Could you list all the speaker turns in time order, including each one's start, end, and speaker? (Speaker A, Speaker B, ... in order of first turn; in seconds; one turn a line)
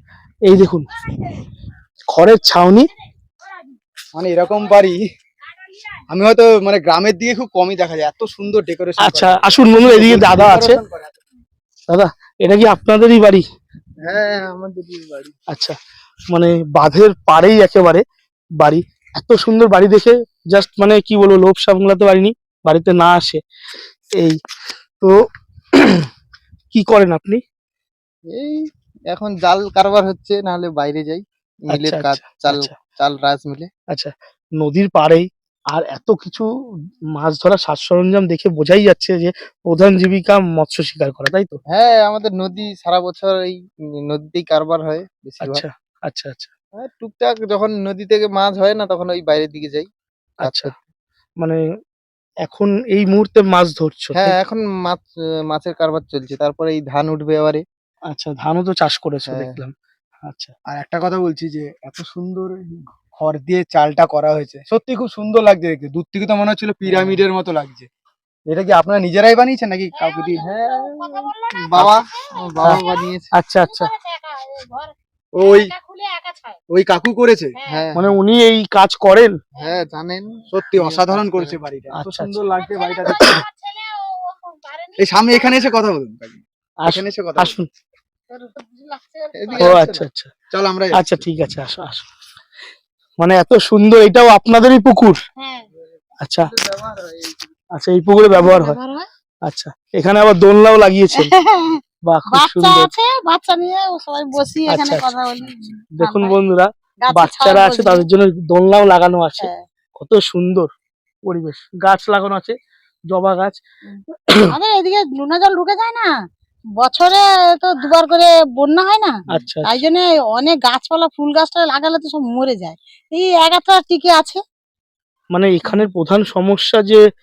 Speaker A: 0.5-0.9
Speaker A: 2.1-2.9
Speaker B: 4.2-5.0
Speaker B: 6.1-11.2
Speaker A: 9.0-10.8
Speaker A: 11.9-13.5
Speaker C: 14.1-15.3
Speaker A: 15.5-15.8
Speaker A: 16.3-18.1
Speaker A: 18.6-23.4
Speaker A: 25.0-26.1
Speaker A: 26.7-27.4
Speaker C: 29.1-31.2
Speaker A: 31.7-32.7
Speaker C: 31.7-33.7
Speaker A: 33.9-36.5
Speaker A: 37.1-41.6
Speaker C: 41.7-45.6
Speaker A: 45.4-46.5
Speaker C: 46.9-49.9
Speaker A: 50.4-50.7
Speaker A: 52.5-54.4
Speaker C: 54.3-55.0
Speaker C: 55.5-57.6
Speaker A: 58.1-59.7
Speaker A: 60.2-60.5
Speaker B: 60.7-67.9
Speaker B: 68.5-70.4
Speaker D: 70.0-76.6
Speaker C: 71.7-73.1
Speaker A: 73.3-73.9
Speaker B: 75.4-75.7
Speaker B: 76.7-77.5
Speaker D: 77.6-77.9
Speaker C: 77.7-78.0
Speaker A: 78.0-79.4
Speaker C: 79.6-81.5
Speaker B: 80.5-83.4
Speaker A: 82.0-82.4
Speaker D: 82.5-85.5
Speaker B: 85.0-87.6
Speaker A: 86.8-87.7
Speaker D: 88.3-89.9
Speaker C: 89.4-89.9
Speaker A: 89.6-90.3
Speaker B: 90.5-91.2
Speaker A: 90.9-92.1
Speaker A: 93.2-95.2
Speaker D: 95.4-95.7
Speaker A: 96.2-96.5
Speaker C: 96.5-97.4
Speaker A: 97.8-98.8
Speaker D: 98.3-99.1
Speaker A: 99.5-101.3
Speaker D: 101.2-101.8
Speaker A: 102.1-102.9
Speaker D: 102.3-106.4
Speaker A: 104.7-105.1
Speaker A: 106.0-110.7
Speaker D: 107.0-108.1
Speaker A: 111.3-112.6
Speaker A: 113.1-113.6
Speaker D: 113.9-116.2
Speaker D: 116.8-124.4
Speaker A: 119.3-119.8
Speaker A: 125.3-127.0